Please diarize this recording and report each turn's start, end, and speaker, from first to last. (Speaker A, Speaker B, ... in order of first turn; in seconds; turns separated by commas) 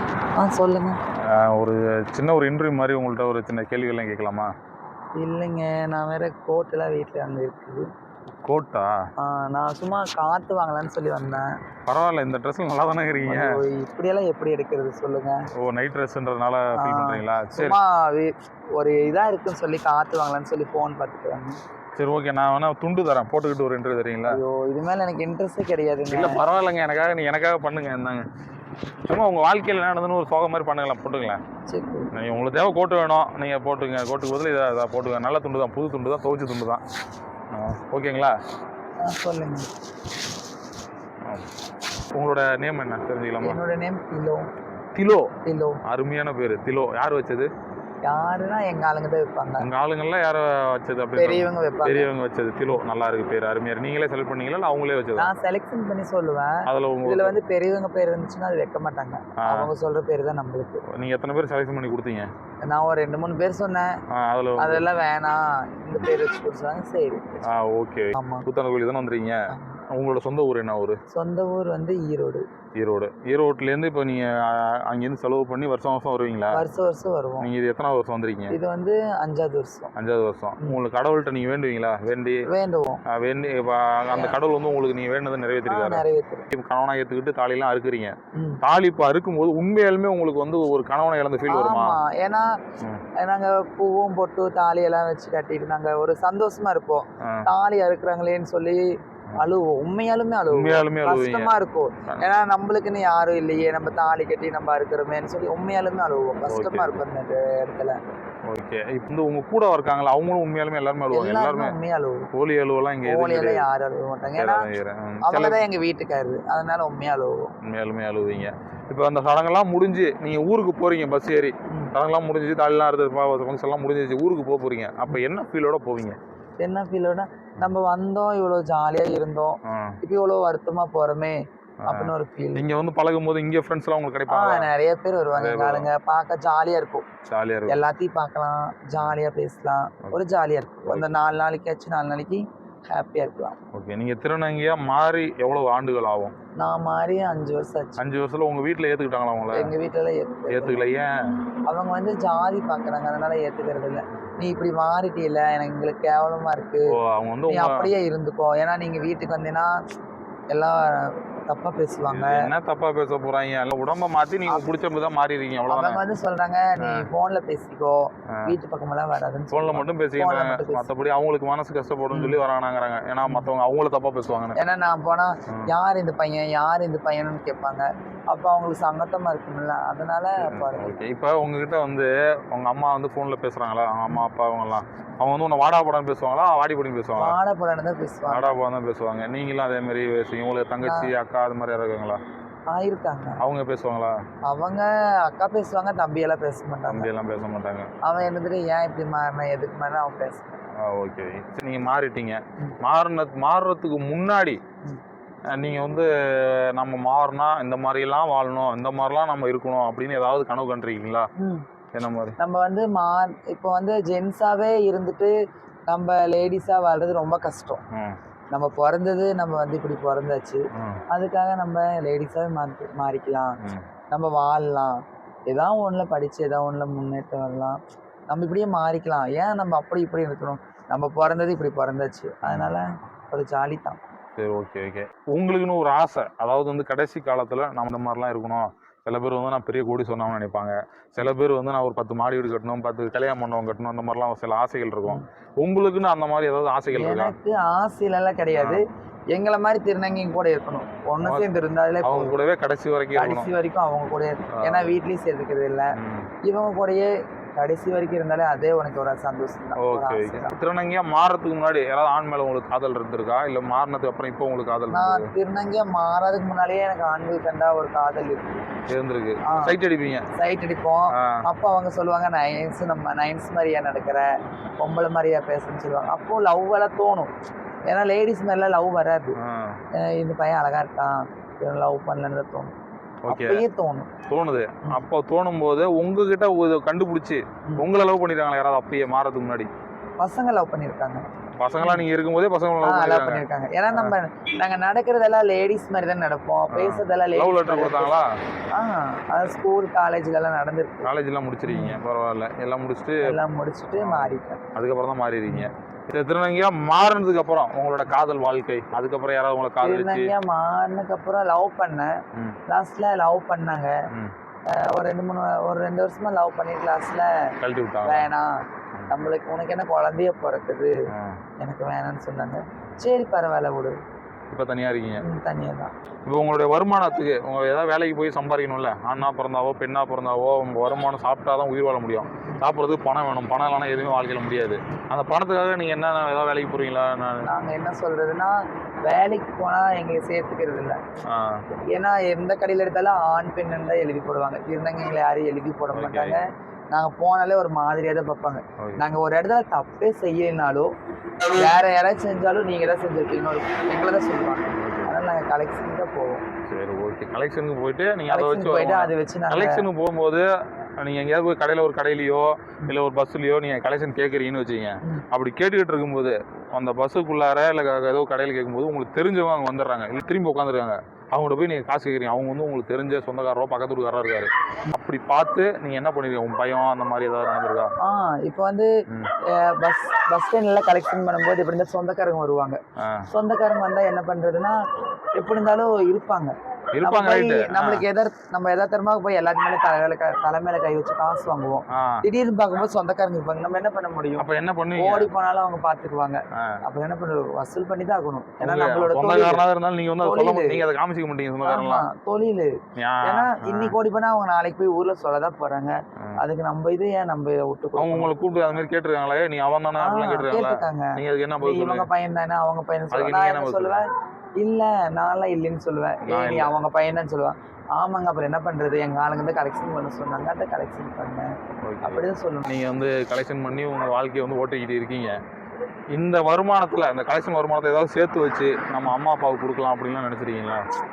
Speaker A: 0.4-1.0, Speaker B: 1.3-4.5, Speaker A: 5.2-7.8, Speaker B: 8.4-8.9, Speaker A: 9.2-11.6, Speaker B: 11.9-13.6, Speaker A: 13.3-15.4, Speaker B: 15.6-17.8, Speaker A: 16.8-21.6, Speaker B: 21.9-24.4, Speaker A: 24.3-26.4, Speaker B: 26.1-28.3, Speaker B: 29.0-31.4, Speaker A: 31.7-32.1, Speaker B: 32.1-36.8, Speaker B: 37.5-38.4, Speaker A: 39.0-39.7, Speaker B: 42.1-43.6, Speaker A: 43.4-44.5, Speaker B: 45.0-45.3, Speaker A: 45.4-45.8, Speaker B: 45.9-47.5, Speaker A: 48.0-49.7, Speaker B: 49.6-55.4, Speaker A: 51.2-52.1, Speaker A: 55.2-60.8, Speaker B: 56.7-57.4, Speaker B: 59.4-59.7, Speaker B: 60.9-62.3, Speaker A: 62.7-63.9, Speaker B: 64.1-64.9, Speaker A: 64.6-67.5, Speaker B: 67.5-69.4, Speaker A: 68.1-68.5, Speaker A: 69.5-69.8, Speaker B: 69.9-71.0, Speaker A: 71.1-72.4, Speaker B: 72.8-76.6, Speaker A: 76.5-77.5, Speaker B: 77.4-78.5, Speaker A: 78.5-79.9, Speaker B: 79.9-82.4, Speaker A: 82.5-83.0, Speaker B: 83.1-92.0, Speaker A: 85.7-86.5, Speaker A: 88.3-88.6, Speaker A: 91.5-92.4, Speaker A: 93.2-108.0, Speaker B: 100.5-101.5, Speaker B: 106.5-107.0, Speaker B: 108.5-111.8, Speaker A: 111.1-112.3, Speaker B: 112.3-113.7, Speaker A: 113.0-114.7, Speaker B: 114.3-115.6, Speaker A: 115.2-117.5, Speaker B: 117.6-126.2, Speaker A: 126.6-132.6, Speaker B: 129.7-130.0, Speaker B: 131.8-134.7, Speaker A: 134.3-137.1, Speaker B: 135.3-135.9, Speaker B: 137.3-137.8, Speaker A: 137.7-143.6, Speaker B: 143.7-146.3, Speaker A: 146.6-148.0, Speaker B: 148.0-149.7, Speaker A: 149.5-150.9, Speaker B: 150.5-151.1, Speaker A: 151.7-156.9, Speaker B: 156.9-157.9, Speaker A: 157.5-159.8, Speaker A: 160.5-162.4, Speaker B: 162.1-166.0, Speaker A: 165.7-170.8, Speaker B: 166.8-167.1, Speaker B: 169.5-174.6, Speaker A: 172.1-172.4, Speaker A: 174.6-180.9, Speaker B: 180.5-187.4, Speaker A: 187.1-188.6, Speaker B: 188.3-192.2, Speaker A: 190.8-191.1, Speaker A: 192.7-193.4, Speaker B: 193.4-194.2, Speaker A: 194.4-197.1, Speaker B: 196.9-197.9, Speaker A: 198.0-200.5, Speaker B: 200.8-204.6, Speaker B: 205.5-211.3, Speaker A: 211.4-211.7, Speaker B: 211.9-212.4, Speaker A: 212.4-215.3, Speaker A: 215.9-217.8, Speaker A: 218.5-223.6, Speaker B: 220.8-221.0, Speaker A: 224.1-224.9, Speaker A: 225.5-227.8, Speaker A: 228.3-234.0, Speaker B: 232.4-232.8, Speaker B: 234.4-247.3, Speaker A: 246.9-252.3, Speaker B: 248.6-248.8, Speaker B: 251.2-251.5, Speaker B: 252.0-253.5, Speaker A: 253.1-255.9, Speaker B: 254.6-254.9, Speaker B: 255.9-256.3, Speaker A: 256.4-260.5, Speaker B: 259.8-265.3, Speaker A: 264.9-268.6, Speaker B: 268.9-270.2, Speaker A: 269.4-269.7, Speaker A: 270.3-274.3, Speaker B: 271.2-271.4, Speaker A: 274.8-277.3, Speaker A: 277.9-279.4, Speaker B: 279.4-279.8, Speaker A: 280.0-282.7, Speaker B: 283.2-283.6, Speaker A: 283.3-284.1, Speaker B: 284.3-289.7, Speaker A: 290.2-291.2, Speaker B: 291.6-294.1, Speaker A: 291.8-292.1, Speaker A: 292.8-298.2, Speaker B: 296.7-298.2, Speaker A: 298.7-301.1, Speaker B: 301.0-303.3, Speaker A: 301.6-302.0, Speaker A: 303.2-304.6, Speaker B: 303.9-310.3, Speaker A: 309.8-312.1, Speaker A: 312.7-313.9, Speaker A: 314.7-317.5, Speaker B: 317.6-318.3, Speaker A: 318.0-318.5, Speaker A: 319.1-320.9, Speaker A: 321.6-323.9, Speaker B: 324.5-325.2, Speaker A: 325.2-325.9, Speaker B: 326.2-337.5, Speaker A: 337.5-341.0, Speaker B: 341.3-341.6, Speaker A: 341.9-350.9, Speaker B: 345.9-346.4, Speaker A: 351.5-356.4, Speaker B: 354.7-355.1, Speaker B: 356.7-360.4, Speaker A: 358.3-359.9, Speaker B: 361.0-377.9, Speaker A: 378.0-378.9, Speaker A: 379.5-382.8, Speaker B: 383.0-383.3, Speaker A: 383.3-384.8, Speaker A: 385.4-399.6, Speaker B: 386.9-388.1, Speaker B: 391.9-392.2, Speaker B: 394.4-395.3, Speaker B: 396.5-396.8, Speaker B: 398.6-402.1, Speaker A: 400.2-400.8, Speaker A: 401.6-408.3, Speaker B: 403.0-403.9, Speaker B: 408.0-412.1, Speaker A: 410.0-414.1, Speaker B: 413.1-414.0, Speaker A: 414.6-421.5, Speaker B: 416.2-416.7, Speaker B: 421.8-425.3, Speaker A: 422.0-422.7, Speaker B: 426.1-430.8